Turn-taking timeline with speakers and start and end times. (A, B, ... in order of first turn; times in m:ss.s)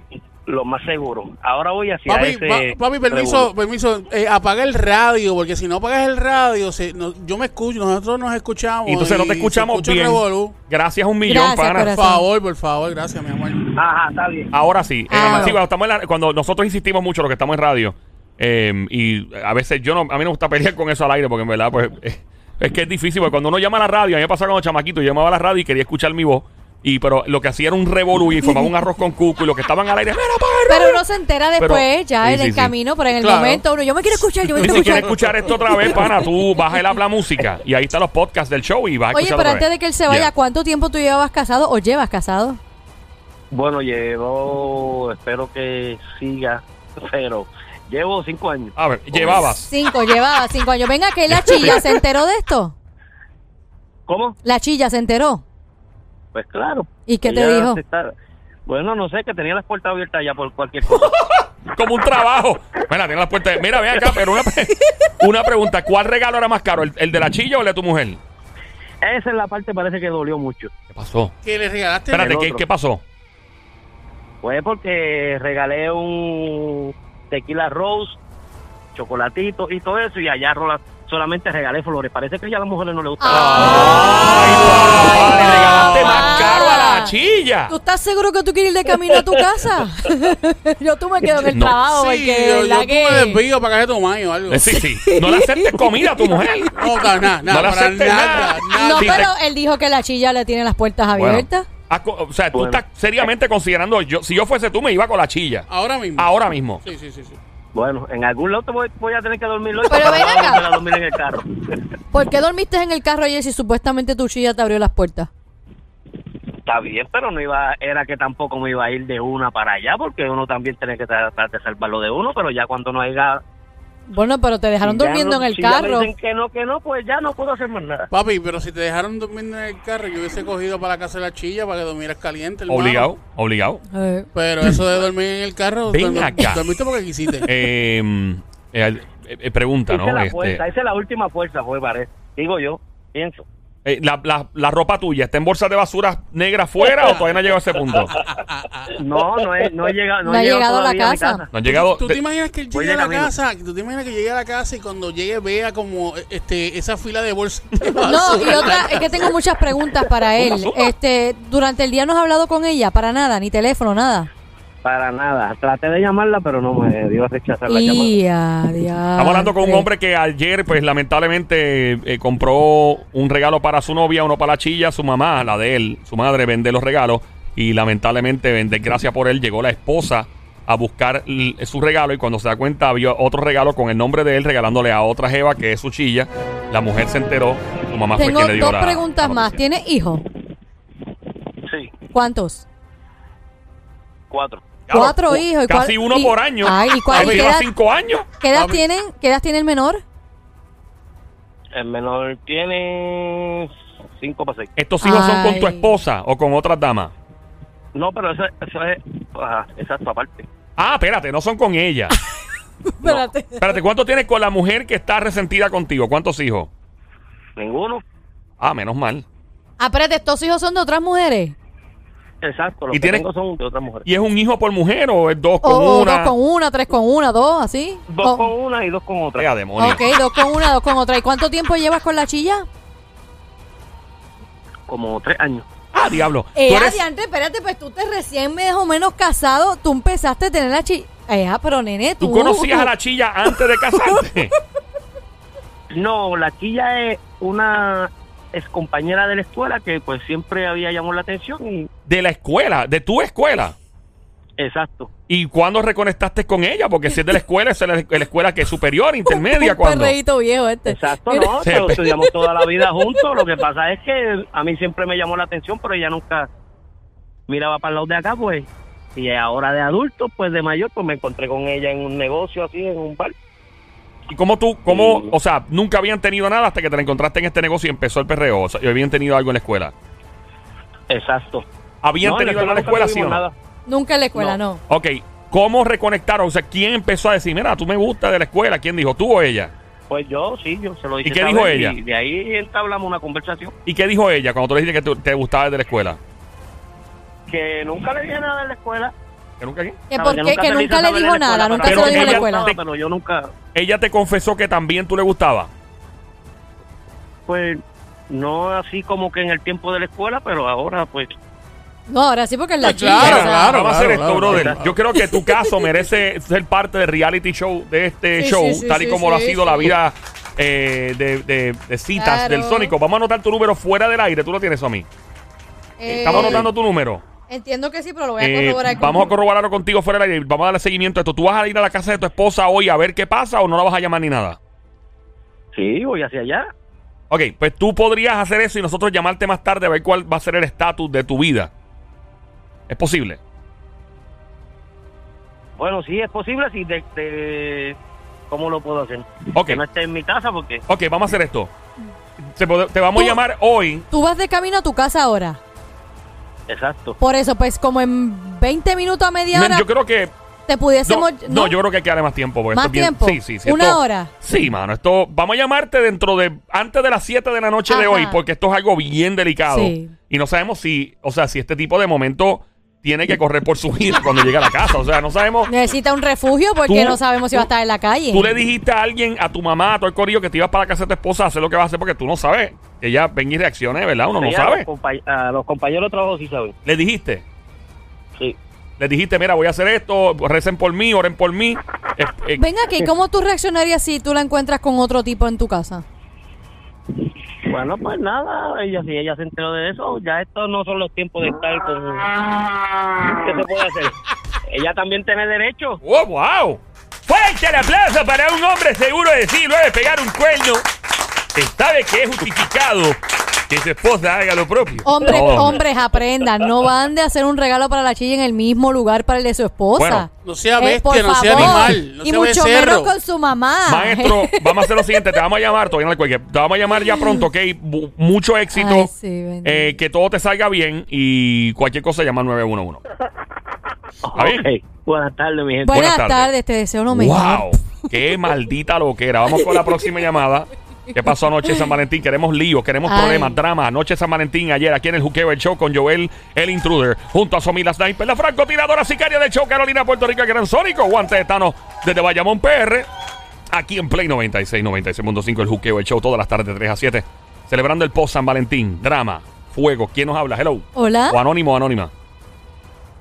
0:00.5-0:03.5 A
0:02.1-0:10.6 B
0:08.8-0:12.0 C
0:11.2-0:12.2 D
0:11.9-0:13.7 B
0:13.7-0:14.5 A
0:14.5-0:31.0 C
0:15.1-0:15.6 D
0:30.7-0:35.1 D
0:31.6-0:32.7 C
0:33.2-0:33.6 B
0:34.5-0:35.9 B
0:34.6-0:40.3 C
0:39.1-0:42.6 D
0:43.5-0:49.5 A
0:48.8-0:49.7 C
0:49.7-0:52.7 D
0:51.3-0:52.0 C
0:54.1-0:54.4 A
0:54.4-0:55.4 D
0:56.3-0:58.1 A
0:57.1-0:57.8 D
0:58.6-1:01.2 A
1:01.7-1:08.2 C
1:09.0-1:10.7 A
1:10.9-1:11.3 C
1:11.4-1:12.4 B
1:12.1-1:13.0 C
1:12.2-1:12.6 A
1:14.4-1:18.2 A
1:18.9-1:24.8 A
1:23.2-1:27.1 D
1:23.3-1:27.7 C
1:25.4-1:26.3 B
1:27.7-1:33.4 D
1:31.5-1:31.8 C
1:31.7-1:34.8 B
1:34.5-1:36.8 C
1:34.7-1:37.0 D
1:36.7-1:39.3 B
1:37.4-1:39.3 C
1:38.7-1:41.7 D
1:41.1-1:46.8 C
1:42.5-1:42.8 A
1:45.7-1:47.4 B
1:47.7-1:51.8 A
1:49.9-1:50.6 D
1:52.1-1:55.3 D
1:56.6-2:03.4 A
2:04.1-2:06.1 D
2:04.8-2:08.1 A
2:08.1-2:13.1 B
2:12.7-2:13.8 C
2:13.9-2:14.3 D
2:14.3-2:17.5 B
2:15.9-2:16.7 C
2:17.4-2:20.6 C
2:19.9-2:23.4 A
2:23.8-2:28.2 C
2:28.3-2:28.9 B
2:28.9-2:31.5 A
2:30.2-2:31.4 D
2:31.5-2:32.2 C
2:31.7-2:39.3 B
2:32.7-2:33.3 A
2:38.0-2:44.3 D
2:40.4-2:40.9 C
2:44.8-2:48.1 A
2:47.7-2:49.9 D
2:49.2-3:09.5 C
3:08.2-3:10.2 D
3:11.6-3:11.9 A
3:12.1-3:12.6 D
3:14.3-3:14.6 A
3:14.9-3:18.3 C
3:14.9-3:17.7 D
3:17.2-3:17.5 B
3:18.4-3:20.0 D
3:18.5-3:18.8 B
3:21.7-3:24.7 A
3:24.8-3:27.1 C
3:25.0-3:25.9 D
3:27.9-3:30.5 A
3:30.8-3:32.1 C
3:32.8-3:33.8 D
3:33.1-3:36.7 C
3:37.6-3:38.0 A
3:38.6-3:39.2 C
3:39.8-3:41.5 D
3:42.4-3:44.0 A
3:42.9-3:43.2 C
3:44.0-3:46.3 C
3:45.6-3:48.5 D
3:48.1-3:49.5 A
3:49.4-3:50.0 C
3:49.8-3:52.7 D
3:54.9-3:55.6 A
3:55.9-3:57.0 C
3:56.5-4:02.9 D
4:02.2-4:04.5 C
4:03.5-4:04.2 D
4:05.9-4:11.9 A
4:12.1-4:13.8 C
4:14.6-4:15.1 A
4:15.3-4:20.2 C
4:19.3-4:21.5 D
4:20.9-4:26.5 A
4:21.6-4:22.1 C
4:22.1-4:23.2 D
4:27.5-4:33.3 A
4:34.3-4:39.9 C
4:34.9-4:35.3 A
4:41.1-4:41.6 A
4:42.0-4:43.4 C
4:42.2-4:43.5 A
4:43.9-4:44.8 D
4:44.9-4:49.7 C
4:50.1-4:53.7 A
4:51.2-4:52.0 C
4:53.8-4:56.2 C
4:57.5-4:59.1 A
4:59.6-5:00.0 C
5:00.1-5:02.7 D
5:00.1-5:03.5 A
5:01.8-5:02.8 C
5:03.7-5:05.7 C
5:07.5-5:11.3 A
5:12.1-5:13.8 D
5:12.8-5:15.0 B
5:13.2-5:25.1 C
5:14.4-5:14.8 A
5:15.3-5:15.7 D
5:18.4-5:19.9 D
5:22.1-5:23.0 D
5:26.0-5:26.7 D
5:26.1-5:27.2 C
5:26.3-5:26.7 A
5:27.5-5:29.3 D
5:28.4-5:34.6 C
5:35.7-5:36.7 A
5:37.3-5:41.7 C
5:42.9-5:43.4 C
5:45.8-5:48.0 A
5:48.5-5:50.8 A
5:49.5-5:49.8 C
5:50.9-5:51.7 C
5:52.4-5:54.0 C
5:53.1-5:53.4 D
5:54.1-5:55.6 D
5:56.7-5:57.2 A
5:57.2-5:59.9 D
5:59.5-6:00.3 C
6:00.7-6:01.8 D
6:01.0-6:15.7 C
6:02.7-6:04.3 D
6:07.9-6:08.4 D
6:09.7-6:10.1 D
6:15.7-6:18.5 D
6:16.9-6:17.7 C
6:18.3-6:24.9 C
6:24.4-6:26.7 A
6:26.8-6:27.4 C
6:29.0-6:32.6 C
6:32.6-6:36.0 D
6:37.6-6:42.3 A
6:43.3-6:46.0 A
6:46.0-6:50.8 C
6:51.5-6:55.8 C
6:55.0-7:05.4 D
7:00.0-7:00.3 C
7:00.4-7:03.1 B
7:01.5-7:02.0 C
7:03.8-7:09.1 C
7:07.1-7:07.4 D
7:08.7-7:10.0 D
7:09.6-7:13.0 C
7:14.2-7:16.0 A
7:14.3-7:14.6 C
7:15.8-7:17.8 D
7:15.9-7:16.5 C
7:17.1-7:33.1 C
7:21.2-7:21.9 D
7:23.0-7:23.6 D
7:33.7-7:42.1 C
7:41.0-7:41.4 D